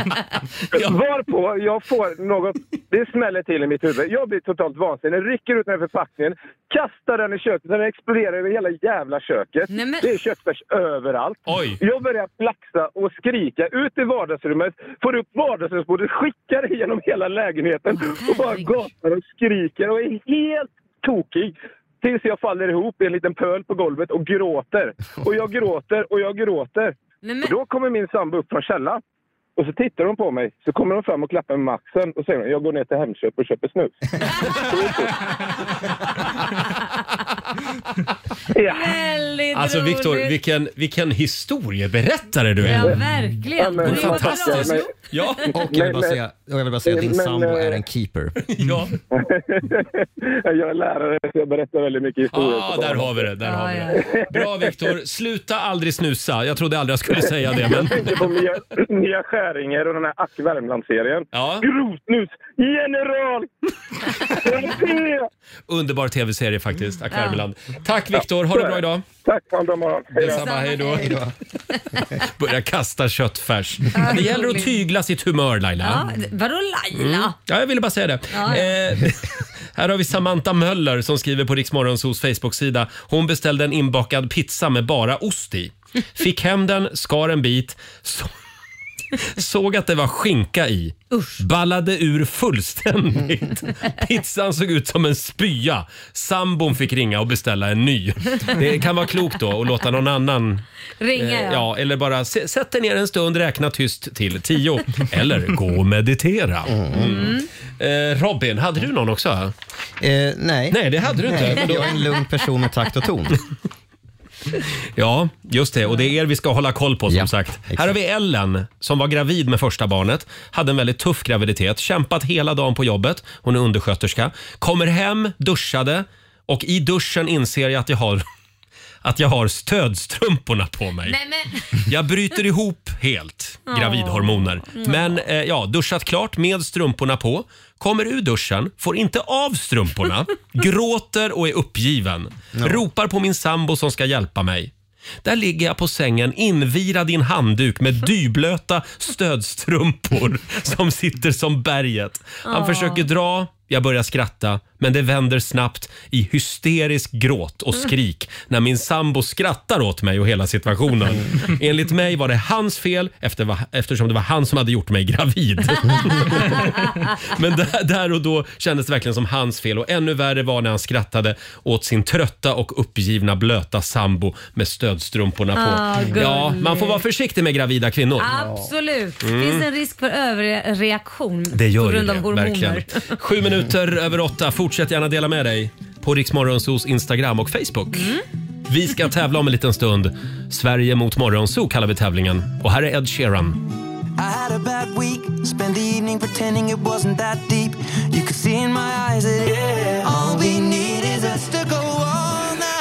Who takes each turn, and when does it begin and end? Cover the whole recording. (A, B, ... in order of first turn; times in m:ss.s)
0:00.7-0:29.0 A
0:09.7-0:10.1 B
0:11.5-0:11.8 C
0:18.0-0:18.8 B
0:27.2-0:27.5 B
0:29.6-0:35.3 A
0:38.5-0:39.0 A
0:38.6-0:40.3 B
0:39.5-0:43.0 C
0:42.6-0:45.3 B
0:43.5-0:44.9 A
0:43.8-0:45.6 C
0:45.5-0:48.4 D
0:45.6-0:46.2 A
0:46.9-0:47.8 A
0:48.5-0:49.0 C
0:49.1-0:53.3 A
0:52.3-0:58.2 C
0:53.4-0:54.1 B
0:54.0-0:54.9 A
0:57.1-1:03.5 A
1:01.3-1:01.7 C
1:04.2-1:05.3 A
1:05.7-1:09.0 C
1:07.1-1:07.4 B
1:08.2-1:10.4 A
1:10.2-1:11.2 C
1:10.2-1:11.1 B
1:11.0-1:11.3 D
1:11.8-1:12.1 B
1:12.2-1:16.1 C
1:13.9-1:14.7 B
1:15.8-1:17.4 B
1:17.0-1:28.3 C
1:18.3-1:18.7 B
1:29.2-1:40.6 C
1:31.1-1:31.4 B
1:41.0-1:41.7 B
1:41.2-1:49.5 C
1:46.7-1:47.1 D
1:46.9-1:47.4 B
1:50.0-1:53.4 D
1:50.7-1:52.0 C
1:55.0-2:08.2 C
1:57.1-1:58.0 D
2:09.0-2:11.2 C
2:11.0-2:11.7 B
2:11.7-2:24.7 C
2:13.7-2:15.2 B
2:22.6-2:22.8 D
2:25.2-2:58.3 C
2:32.4-2:33.1 B
2:55.6-2:57.0 B
2:58.2-3:03.1 B
2:59.2-2:59.7 C
3:01.5-3:08.1 C
3:07.9-3:08.2 B
3:08.7-3:13.6 C
3:14.4-3:16.2 E
3:20.1-3:20.5 E